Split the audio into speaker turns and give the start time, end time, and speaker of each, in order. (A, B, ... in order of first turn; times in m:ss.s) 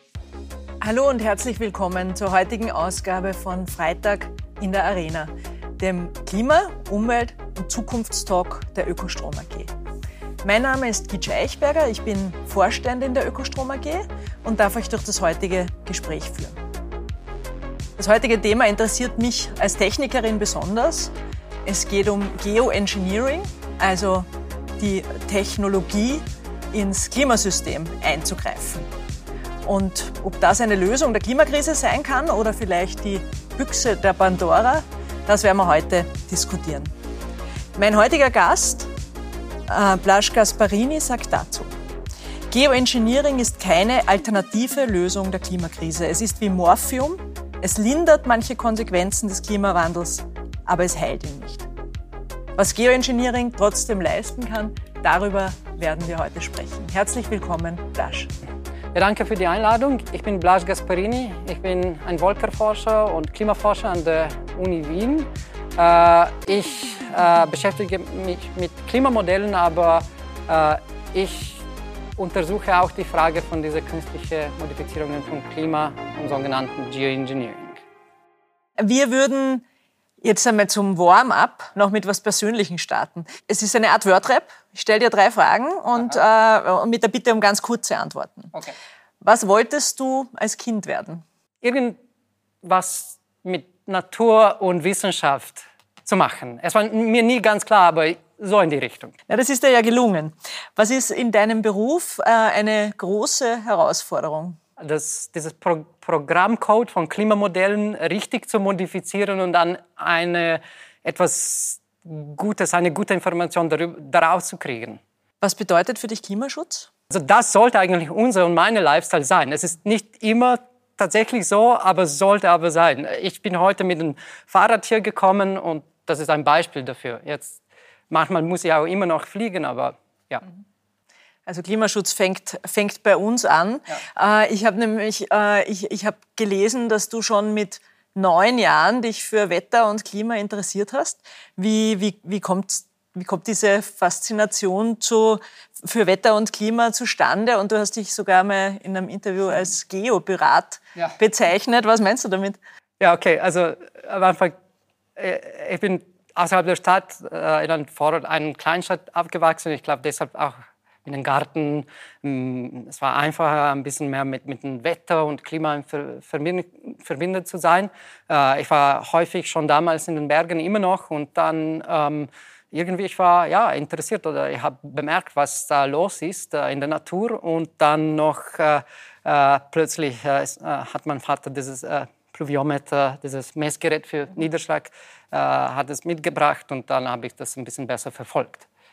0:00.8-0:09.7 A
0:10.4-0:16.6 A
0:18.0-0:21.1 A
0:21.6-0:24.3 A
0:24.8-0:28.9 A
0:29.6-0:36.9 A
0:37.8-0:38.9 A
0:39.7-0:41.7 A
0:42.5-0:51.7 A
0:52.6-0:58.3 A
0:58.9-1:11.6 B
1:12.2-1:17.8 B
1:18.8-1:19.6 A
1:20.2-1:28.6 A
1:29.2-1:31.2 A
1:31.6-1:32.0 B
1:32.6-1:39.1 B
1:39.3-1:44.6 A
1:44.8-1:55.0 B
1:55.4-1:56.9 A
1:57.1-2:10.4 B
2:11.5-2:32.6 A
2:33.0-2:34.6 B
2:35.2-3:08.7 B